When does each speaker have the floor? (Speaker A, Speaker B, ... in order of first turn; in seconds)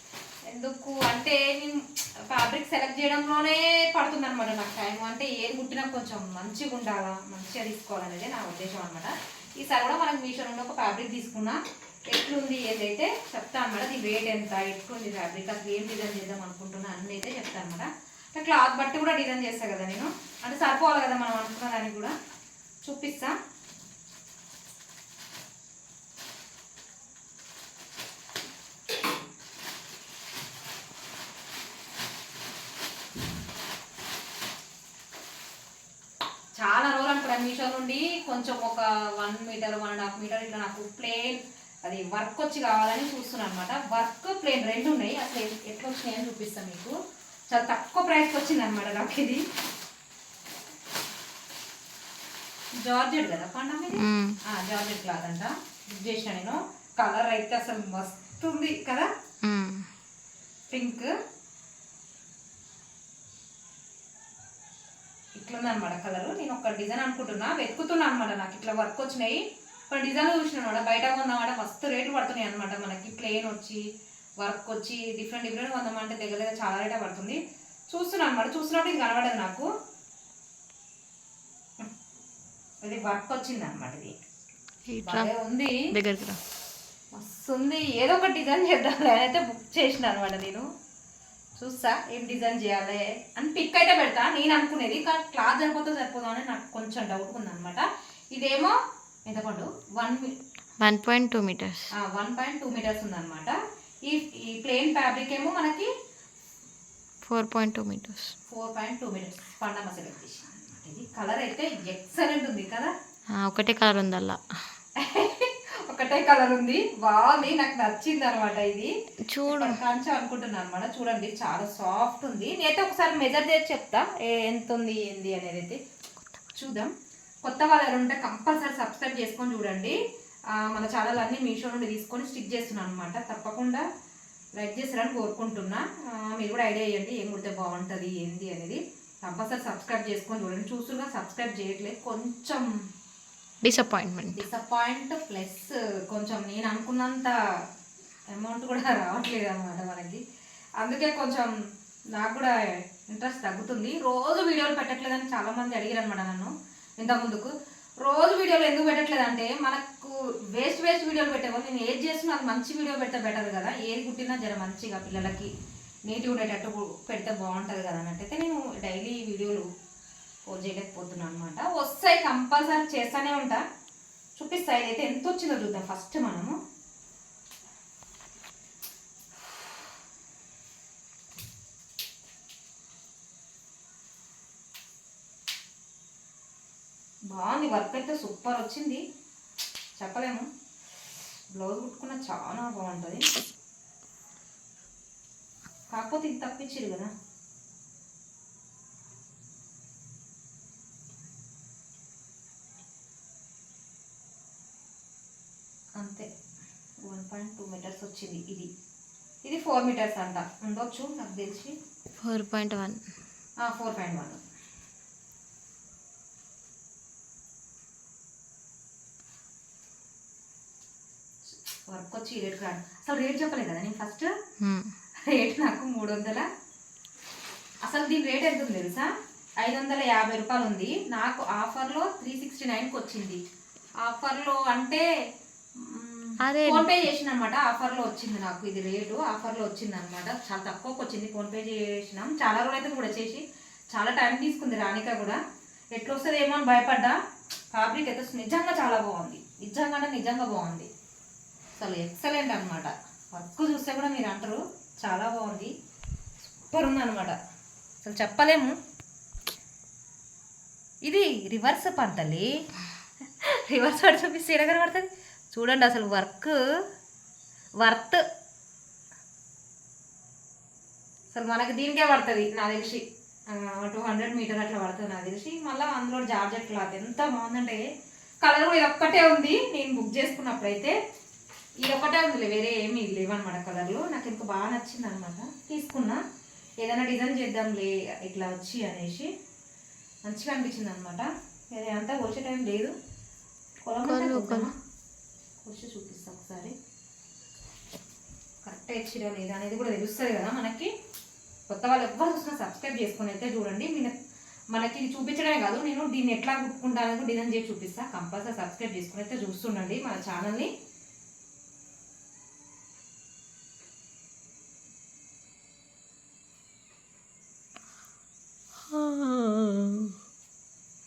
Speaker A: 0.5-11.6, 12.1-22.1, 22.8-23.4, 36.6-46.9, 47.5-49.4, 52.8-59.1, 60.7-61.1, 65.4-73.8, 74.4-77.4, 77.9-79.7, 82.8-84.2, 85.0-85.8, 87.1-90.7, 91.6-98.8, 99.3-100.3, 102.0-103.5, 104.1-105.9, 108.5-112.9, 115.0-118.9, 119.5-125.8, 126.5-126.9, 127.4-130.0, 130.6-133.8, 134.6-142.7, 144.3-147.3, 148.3-150.2, 150.8-151.5, 152.2-157.5, 158.0-165.5, 166.1-169.7, 170.5-173.6, 174.4-176.6, 187.3-189.0, 190.0-190.5, 191.6-193.2, 195.9-197.1, 206.0-206.3, 207.1-208.7, 209.4-211.7, 213.6-214.4, 221.5-224.3, 225.3-226.4, 227.8-229.1, 229.6-233.4, 234.0-235.0, 235.8-243.4, 243.9-245.4, 246.0-247.2, 247.7-250.9, 251.8-255.7, 256.7-257.4, 258.0-258.7, 261.1-262.5, 263.4-266.6, 267.8-268.2, 271.3-277.8, 278.4-280.9, 281.8-286.2, 286.8-289.3, 290.3-292.9, 293.9-294.7, 295.6-296.8, 298.7-300.9, 301.7-304.1, 304.7-310.7
Speaker B: 54.0-54.4, 59.4-59.9, 84.9-85.3, 85.9-86.4, 100.8-101.9, 107.2-108.3, 113.4-114.4, 119.3-119.8, 143.6-144.4, 212.2-213.0, 224.6-224.9, 236.4-237.0, 294.0-294.7, 318.9-320.1